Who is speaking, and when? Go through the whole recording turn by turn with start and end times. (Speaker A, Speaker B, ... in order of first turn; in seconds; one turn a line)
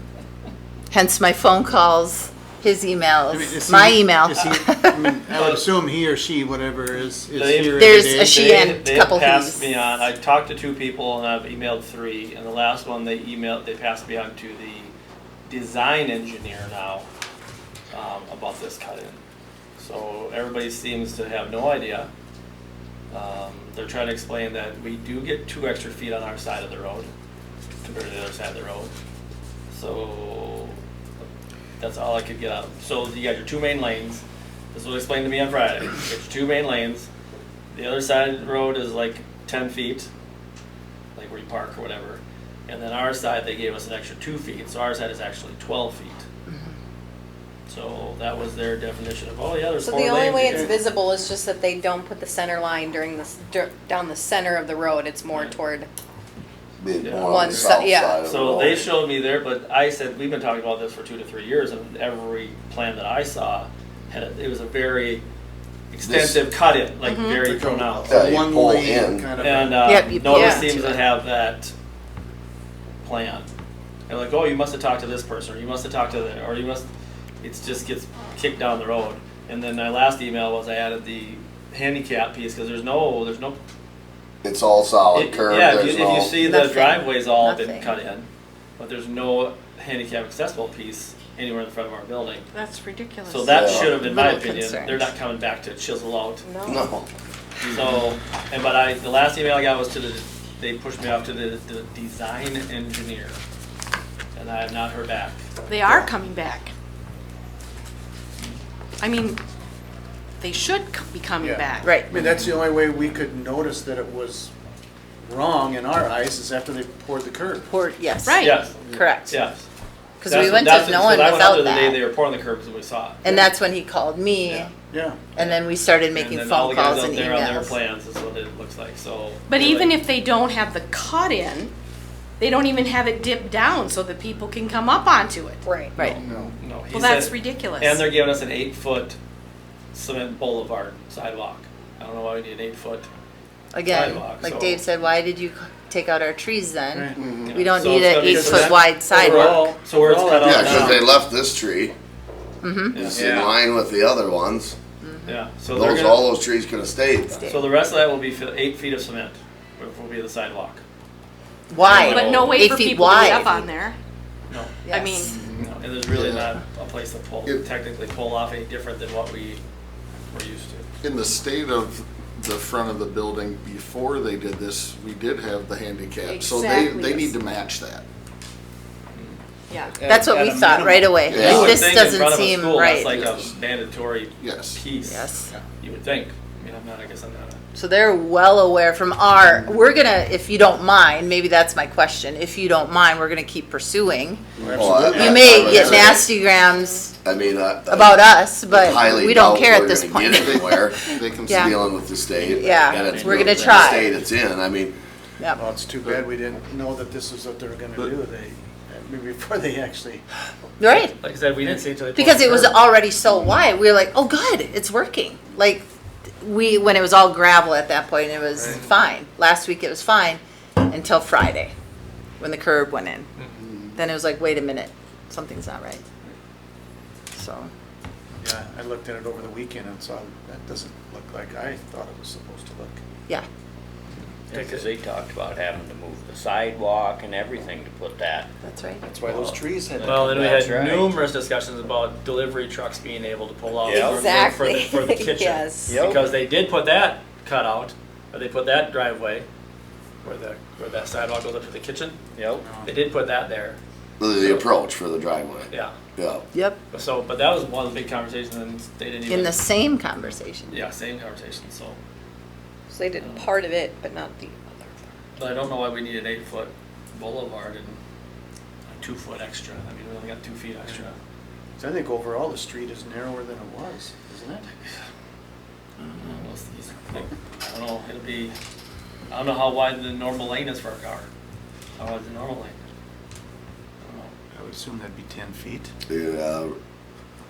Speaker A: 0.9-5.1
Speaker B: 3.3-8.4
Speaker C: 5.3-5.6
Speaker C: 7.3-14.9
Speaker A: 7.8-9.7
Speaker C: 15.5-17.1
Speaker C: 17.9-19.2
Speaker C: 19.8-22.1
Speaker C: 23.1-27.1
Speaker C: 27.8-28.9
Speaker C: 29.7-30.8
Speaker C: 31.8-37.1
Speaker C: 37.7-40.1
Speaker C: 41.1-46.2
Speaker C: 47.7-50.8
Speaker D: 49.8-55.9
Speaker B: 50.5-50.8
Speaker C: 55.3-55.6
Speaker E: 56.8-58.9
Speaker C: 57.0-57.5
Speaker D: 57.2-58.3
Speaker B: 57.4-57.7
Speaker C: 58.2-65.2
Speaker C: 65.9-68.2
Speaker E: 66.0-66.4
Speaker F: 67.0-67.4
Speaker B: 67.4-70.0
Speaker E: 68.1-69.3
Speaker C: 69.4-71.7
Speaker A: 69.8-71.0
Speaker D: 70.2-70.7
Speaker C: 73.0-73.5
Speaker C: 74.1-76.9
Speaker C: 77.4-83.6
Speaker E: 84.4-86.4
Speaker C: 85.1-88.3
Speaker A: 86.4-87.9
Speaker C: 88.8-92.5
Speaker F: 92.5-93.7
Speaker C: 93.3-96.4
Speaker E: 93.5-93.9
Speaker A: 93.8-95.1
Speaker D: 96.4-96.8
Speaker E: 96.7-97.1
Speaker C: 97.6-103.4
Speaker C: 104.3-105.4
Speaker F: 105.7-106.7
Speaker F: 109.0-109.4
Speaker F: 110.4-112.0
Speaker B: 111.4-114.5
Speaker A: 111.8-112.2
Speaker B: 115.2-117.7
Speaker A: 117.7-119.4
Speaker F: 118.2-118.6
Speaker C: 118.4-118.7
Speaker B: 118.6-119.2
Speaker C: 119.3-119.6
Speaker A: 120.2-122.0
Speaker C: 120.2-123.3
Speaker A: 123.2-124.7
Speaker B: 124.9-125.2
Speaker A: 125.3-127.8
Speaker C: 125.4-129.9
Speaker F: 129.5-131.7
Speaker F: 132.4-135.6
Speaker D: 135.6-136.0
Speaker A: 135.9-136.2
Speaker C: 136.0-139.2
Speaker B: 136.2-136.5
Speaker F: 136.9-138.0
Speaker C: 139.9-143.1
Speaker A: 143.7-149.7
Speaker C: 143.9-144.8
Speaker B: 146.9-151.1
Speaker G: 147.2-147.5
Speaker C: 147.4-151.0
Speaker E: 150.4-151.9
Speaker A: 152.6-153.1
Speaker C: 152.9-153.4
Speaker E: 152.9-154.8
Speaker B: 153.1-153.5
Speaker A: 155.0-155.4
Speaker C: 155.2-156.3
Speaker E: 155.7-157.4
Speaker A: 157.3-157.6
Speaker C: 157.5-160.8
Speaker A: 161.7-163.7
Speaker C: 161.8-162.6
Speaker F: 161.9-163.9
Speaker C: 164.5-164.8
Speaker A: 164.8-165.2
Speaker F: 164.9-165.3
Speaker G: 165.3-165.6
Speaker C: 165.4-169.6
Speaker E: 166.1-166.4
Speaker C: 170.3-170.9
Speaker G: 171.0-178.0
Speaker F: 176.2-177.3
Speaker F: 179.7-180.0
Speaker H: 180.0-181.3
Speaker A: 180.0-183.2
Speaker E: 181.3-181.8
Speaker C: 181.3-187.6
Speaker G: 184.4-184.8
Speaker A: 185.0-185.5
Speaker A: 187.8-194.4
Speaker B: 194.6-195.9
Speaker E: 194.7-196.2
Speaker A: 195.1-197.1
Speaker G: 195.3-196.2
Speaker E: 197.2-204.9
Speaker A: 197.9-201.8
Speaker G: 200.5-201.8
Speaker A: 202.3-204.1
Speaker H: 202.6-204.3
Speaker B: 205.5-210.2
Speaker A: 210.8-211.1
Speaker C: 210.9-212.8
Speaker A: 212.2-215.8
Speaker A: 216.4-221.7
Speaker B: 218.5-218.8
Speaker A: 222.4-223.3
Speaker A: 223.9-226.0
Speaker A: 227.3-227.7
Speaker B: 228.4-233.0
Speaker H: 234.5-238.5
Speaker C: 234.5-234.9
Speaker A: 238.6-239.0
Speaker B: 239.0-240.2
Speaker C: 239.3-249.5
Speaker H: 239.9-241.2
Speaker H: 243.8-244.2
Speaker D: 243.9-246.0
Speaker H: 245.9-246.3
Speaker C: 250.2-252.2
Speaker H: 252.3-252.7
Speaker B: 252.6-252.9
Speaker C: 252.8-253.8
Speaker E: 254.2-256.4
Speaker C: 254.3-254.7
Speaker A: 256.5-256.8
Speaker C: 256.9-259.6
Speaker A: 259.3-260.8
Speaker C: 260.7-262.0
Speaker D: 262.9-265.1
Speaker C: 263.1-263.5
Speaker C: 265.4-268.0
Speaker C: 268.9-271.1
Speaker B: 271.8-274.7
Speaker C: 276.1-278.6
Speaker C: 279.3-281.3
Speaker C: 282.0-282.8
Speaker C: 284.0-284.3
Speaker B: 284.5-285.9
Speaker E: 286.1-286.8